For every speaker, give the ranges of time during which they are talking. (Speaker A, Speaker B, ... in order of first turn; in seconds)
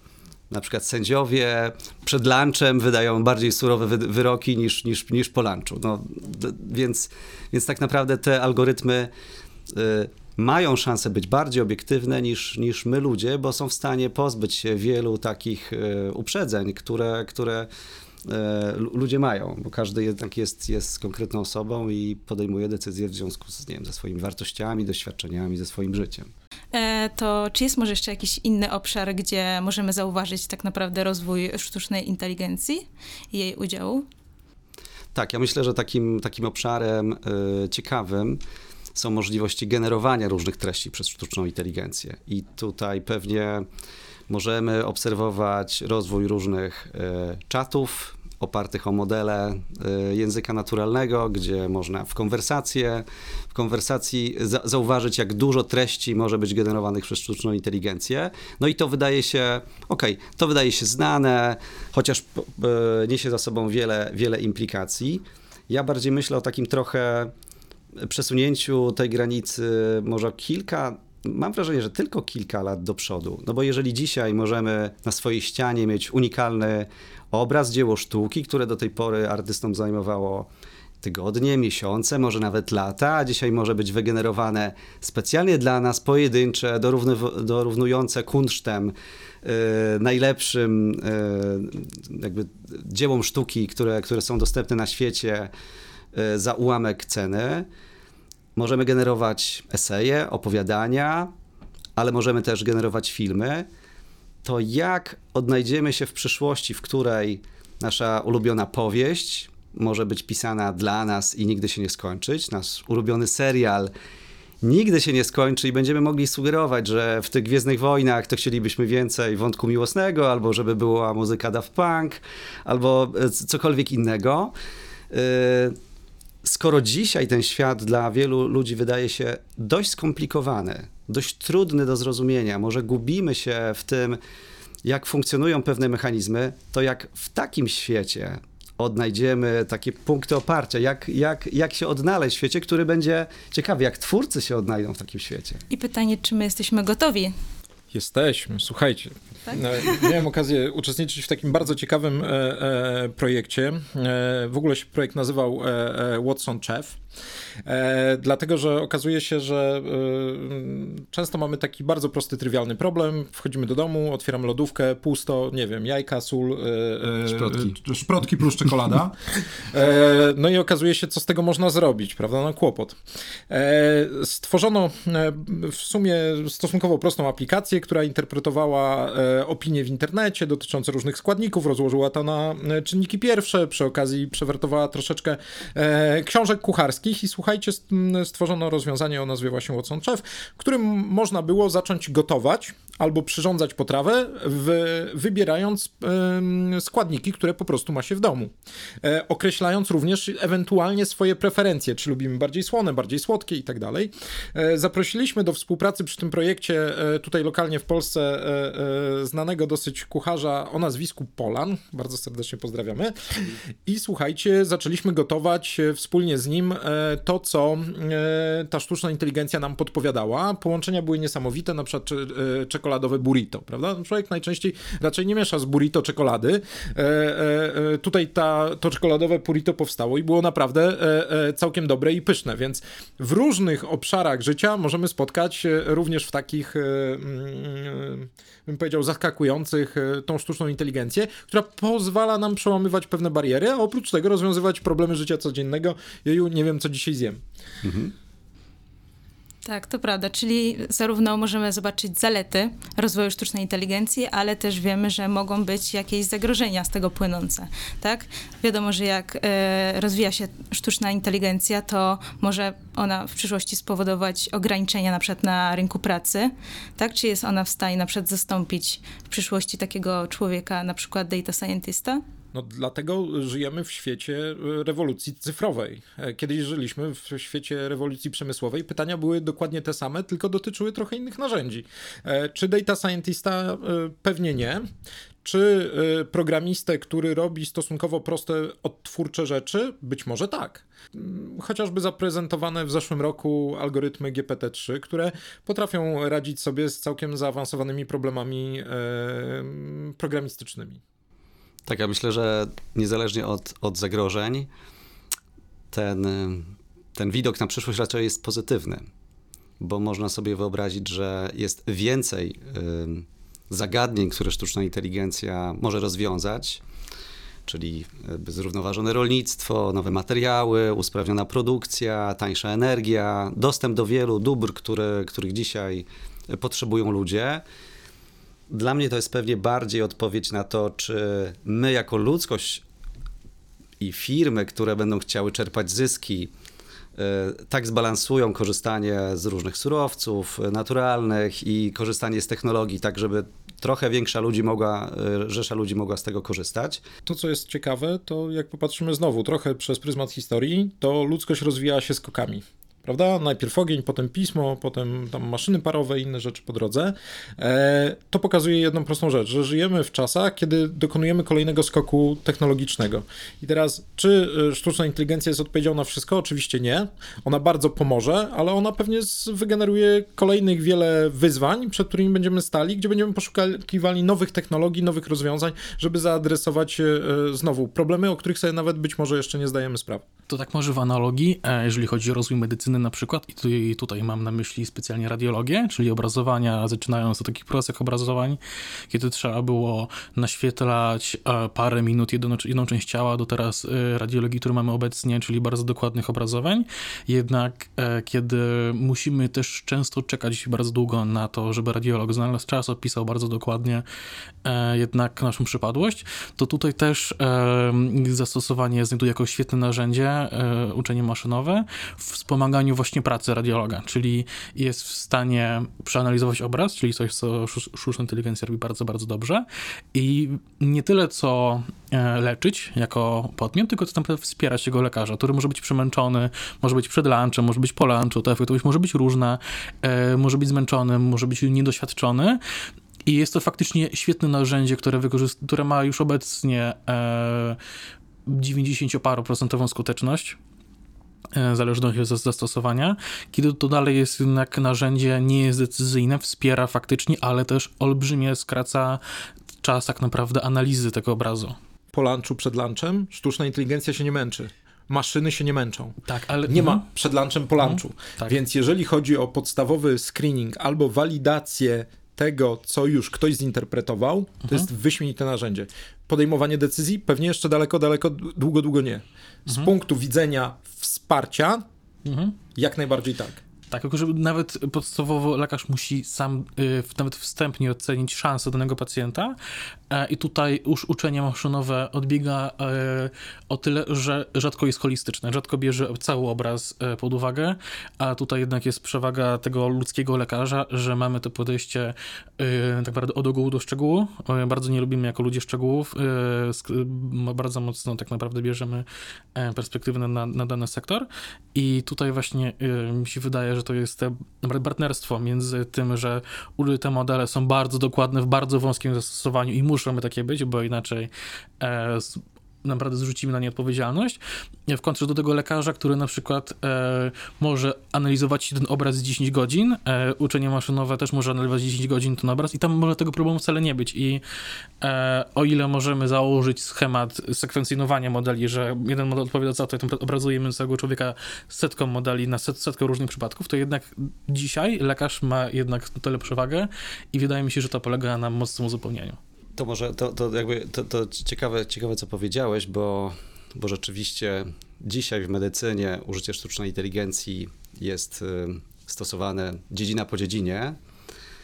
Speaker A: 0.5-9.1, 9.7-17.7, 18.2-26.3, 35.1-38.4, 39.0-43.7, 44.3-67.3, 68.0-80.5, 81.0-95.5, 96.1-97.7, 98.6-101.3, 102.0-103.7, 104.4-113.9, 114.6-124.5, 125.1-125.8, 126.4-134.2, 134.8-145.6, 167.3-167.7, 247.8-248.1, 301.9-304.7, 305.9-309.1, 309.8-316.8, 317.7-327.6, 328.7-332.8, 334.0-336.5, 337.2-347.0, 539.8-551.0
Speaker B: 26.7-34.0, 145.7-147.3, 149.5-150.1, 249.7-272.2
Speaker C: 147.9-157.0, 157.7-173.0, 173.5-247.4, 272.5-284.9, 285.4-301.0, 347.2-380.2, 452.1-471.9, 472.8-473.6
Speaker D: 380.5-404.1, 404.6-432.6, 433.3-437.8, 438.5-440.6, 441.5-449.2, 449.8-451.8, 456.3-457.0, 457.8-458.6, 472.2-472.6, 473.9-479.6, 480.1-524.4, 525.0-539.4